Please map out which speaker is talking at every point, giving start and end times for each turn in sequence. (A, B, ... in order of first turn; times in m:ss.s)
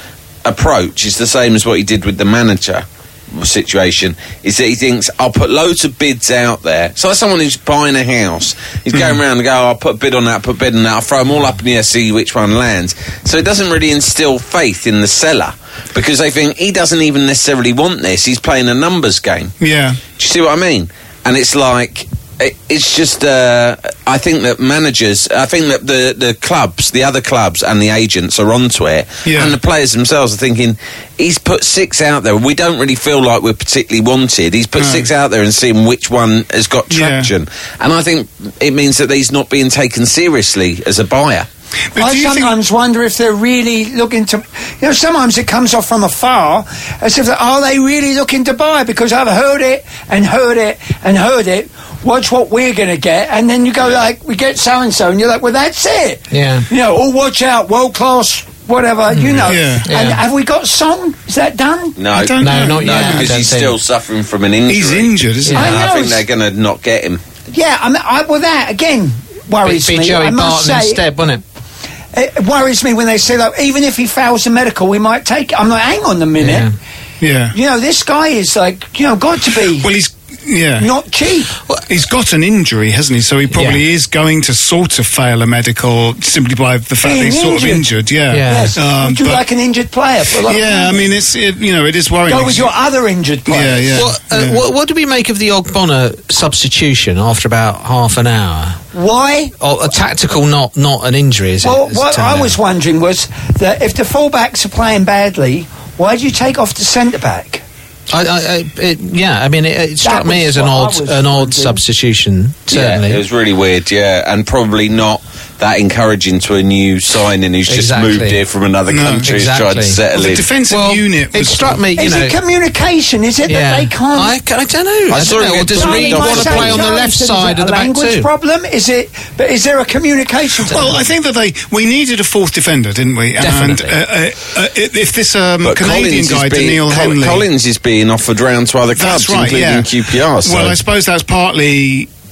0:00.4-0:19.5 A
0:08.9-0:09.2 B
0:19.6-0:20.0 B
0:20.2-0:41.5 A
0:29.2-0:29.6 B
0:34.8-0:35.1 B
0:36.9-0:37.3 B
0:41.9-0:42.5 B
0:42.0-1:02.0 C
0:56.3-0:56.7 D
0:59.1-1:00.2 D
0:59.5-0:59.9 B
1:02.0-1:07.2 A
1:02.1-1:03.3 B
1:02.4-1:03.8 D
1:04.7-1:05.8 B
1:05.5-1:05.7 D
1:05.6-1:06.2 C
1:07.5-1:11.0 C
1:09.6-1:11.4 D
1:12.1-1:16.7 C
1:16.4-1:16.7 D
1:17.2-1:17.6 B
1:17.5-1:19.9 C
1:19.5-1:20.9 B
1:20.8-1:21.5 C
1:21.9-1:29.4 B
1:23.5-1:23.8 D
1:27.0-1:27.9 C
1:28.3-1:28.8 D
1:28.4-1:31.0 C
1:30.4-1:32.7 B
1:32.3-1:34.1 C
1:33.5-1:34.6 B
1:34.0-1:38.8 D
1:38.9-1:39.5 C
1:39.6-1:42.6 D
1:41.6-1:47.6 C
1:48.1-1:53.2 D
1:50.0-1:51.8 C
1:52.7-2:00.5 A
1:57.7-1:58.4 D
1:58.9-1:59.4 B
1:59.2-2:00.0 D
2:00.1-2:01.8 B
2:00.7-2:02.4 D
2:02.0-2:04.3 C
2:03.5-2:08.3 D
2:05.1-2:06.9 A
2:05.8-2:11.0 C
2:10.7-2:11.0 D
2:10.7-2:17.5 B
2:13.4-2:14.0 D
2:15.6-2:20.8 A
2:19.0-2:22.1 B